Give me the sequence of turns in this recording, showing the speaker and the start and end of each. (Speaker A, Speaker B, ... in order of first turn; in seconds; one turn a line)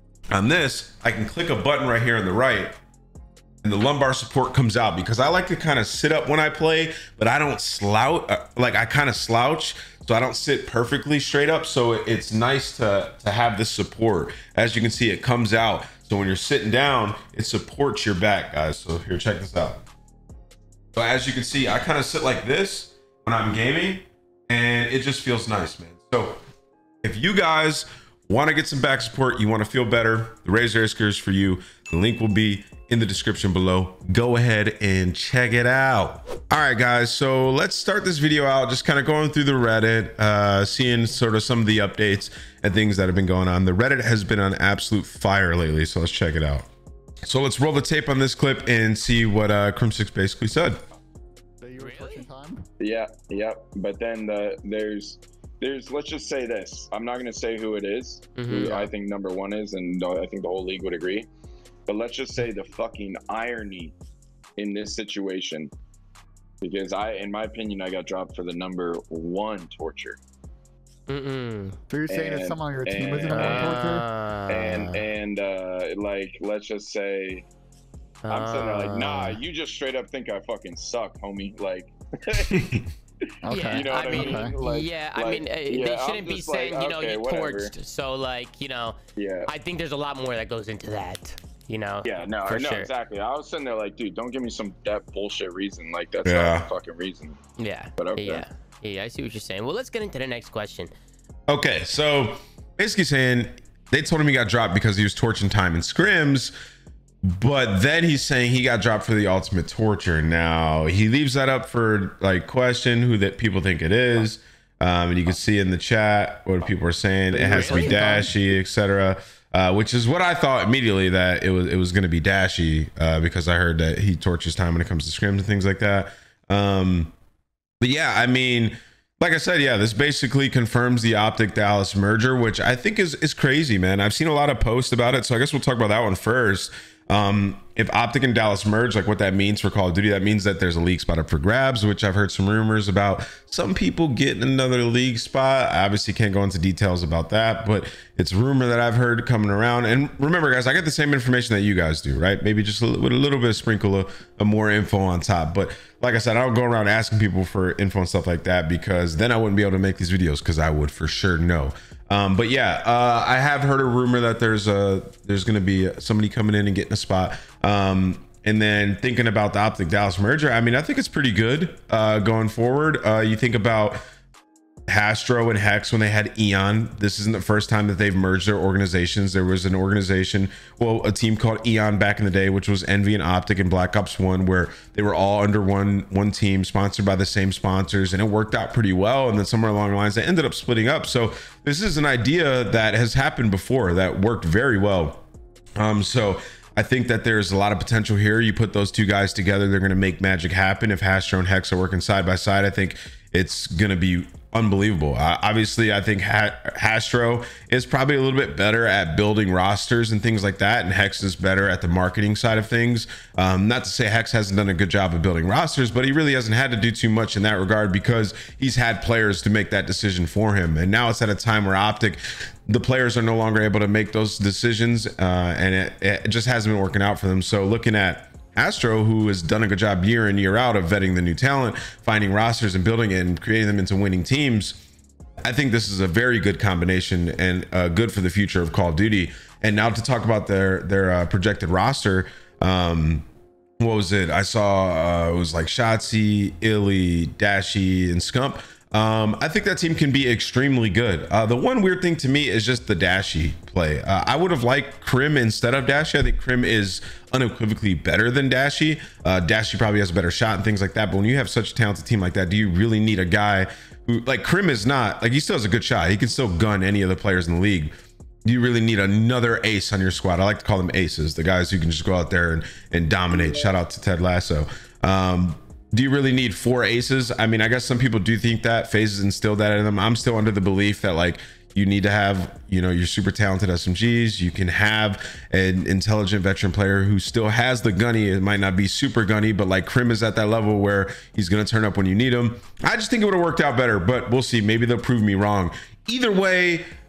Speaker A: 0.3-2.8
Speaker A: 3.6-19.8
Speaker A: 20.9-26.4
Speaker A: 27.0-46.7
Speaker A: 47.2-50.8
Speaker B: 51.6-52.6
Speaker C: 51.8-52.3
Speaker D: 52.8-61.3
Speaker C: 58.4-58.9
Speaker D: 61.9-64.0
Speaker D: 64.6-65.7
Speaker D: 66.6-70.2
Speaker C: 71.1-71.8
Speaker B: 71.9-74.0
Speaker D: 72.1-73.8
Speaker C: 73.3-75.0
Speaker D: 74.5-77.5
Speaker C: 78.2-79.4
Speaker D: 78.3-82.7
Speaker A: 82.5-82.8
Speaker B: 83.4-84.5
Speaker C: 83.5-89.0
Speaker D: 83.6-87.7
Speaker D: 89.2-89.5
Speaker C: 89.5-92.9
Speaker D: 92.0-97.4
Speaker A: 96.2-96.7
Speaker C: 97.6-100.9
Speaker D: 98.0-98.5
Speaker A: 101.5-106.5
Speaker A: 107.2-127.1
Speaker B: 117.3-118.3
Speaker C: 117.4-118.0
Speaker A: 127.8-174.0
Speaker A: 174.9-195.2
Speaker A: 195.8-234.8
Speaker A: 235.4-243.2
Speaker A: 243.8-267.9
Speaker A: 268.4-296.9